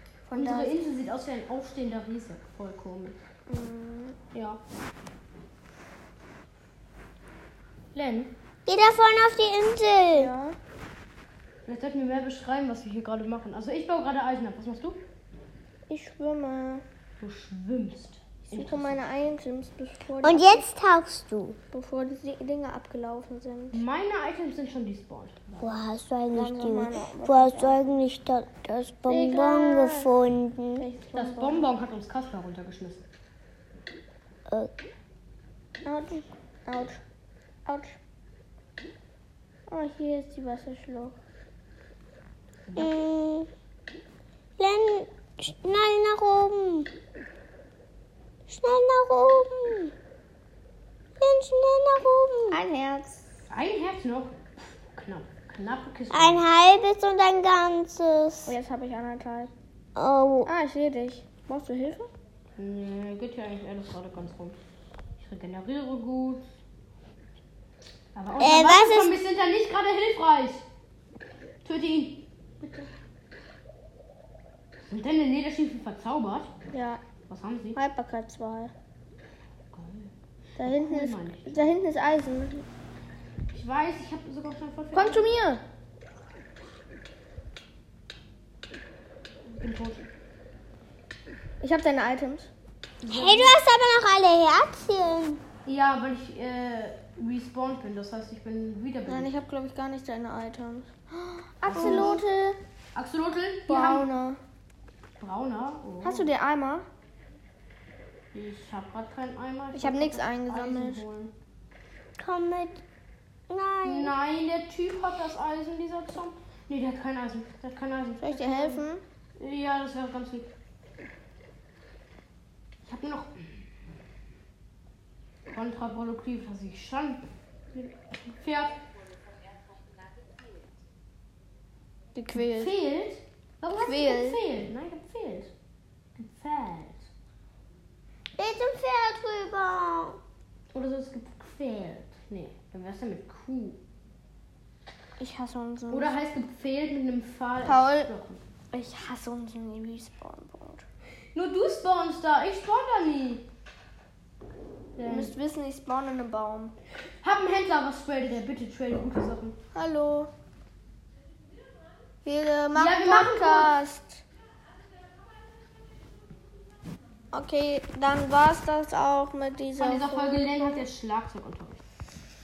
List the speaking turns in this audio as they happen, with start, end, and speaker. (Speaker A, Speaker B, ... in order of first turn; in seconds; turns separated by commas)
Speaker A: 0.2-0.8, Speaker B: 0.3-3.2, Speaker A: 3.5-4.2, Speaker B: 4.3-4.6, Speaker B: 7.9-8.3, Speaker C: 8.7-10.3, Speaker A: 10.1-10.6, Speaker B: 11.7-15.0, Speaker A: 15.9-16.9, Speaker B: 17.2-19.0, Speaker A: 18.5-20.7, Speaker C: 20.2-21.6, Speaker A: 21.7-23.8, Speaker B: 23.7-25.8, Speaker C: 25.6-30.9, Speaker A: 26.3-27.8, Speaker A: 29.1-30.1, Speaker A: 30.8-31.7, Speaker B: 31.1-33.0, Speaker A: 35.9-37.0, Speaker A: 37.7-38.0, Speaker A: 39.7-41.2, Speaker B: 42.7-43.0, Speaker C: 42.8-43.5, Speaker C: 44.6-46.9, Speaker C: 48.5-49.9, Speaker C: 51.2-52.6, Speaker A: 52.5-53.2, Speaker B: 53.5-56.5, Speaker C: 56.1-58.6, Speaker A: 58.5-59.5, Speaker C: 60.0-60.5, Speaker A: 60.5-62.1, Speaker B: 62.6-64.6, Speaker B: 65.2-66.5, Speaker B: 68.1-70.6, Speaker C: 68.4-69.1, Speaker B: 71.6-72.9, Speaker B: 74.9-76.5, Speaker A: 76.7-77.0, Speaker B: 77.3-77.8, Speaker A: 77.8-78.7, Speaker B: 79.7-81.7, Speaker A: 80.6-82.7, Speaker B: 83.5-85.3, Speaker A: 84.9-85.6, Speaker B: 89.5-90.1, Speaker A: 91.6-92.5, Speaker B: 93.0-93.6, Speaker C: 93.1-95.4, Speaker B: 95.7-99.3, Speaker A: 99.1-102.6, Speaker B: 101.6-102.2, Speaker B: 102.9-104.1, Speaker A: 103.7-104.4, Speaker B: 105.2-106.3, Speaker A: 106.0-106.9, Speaker B: 108.3-111.3, Speaker A: 109.7-111.0, Speaker C: 112.2-112.8, Speaker C: 113.5-114.1, Speaker B: 113.8-118.8, Speaker A: 118.2-119.0, Speaker B: 119.4-120.5, Speaker B: 122.8-123.6, Speaker B: 125.5-127.2, Speaker B: 127.8-128.8, Speaker A: 132.2-132.8, Speaker B: 132.3-135.5, Speaker A: 133.7-134.4, Speaker B: 136.2-137.1, Speaker C: 138.4-140.2, Speaker B: 140.7-143.8, Speaker A: 145.2-146.2, Speaker B: 145.9-148.4, Speaker A: 147.6-148.1, Speaker A: 148.7-150.8, Speaker B: 151.3-153.5, Speaker B: 155.0-155.3, Speaker A: 155.1-156.8, Speaker B: 157.2-159.6, Speaker A: 159.7-160.3, Speaker A: 162.2-164.2, Speaker B: 162.7-163.8, Speaker A: 167.3-170.9, Speaker B: 169.8-171.8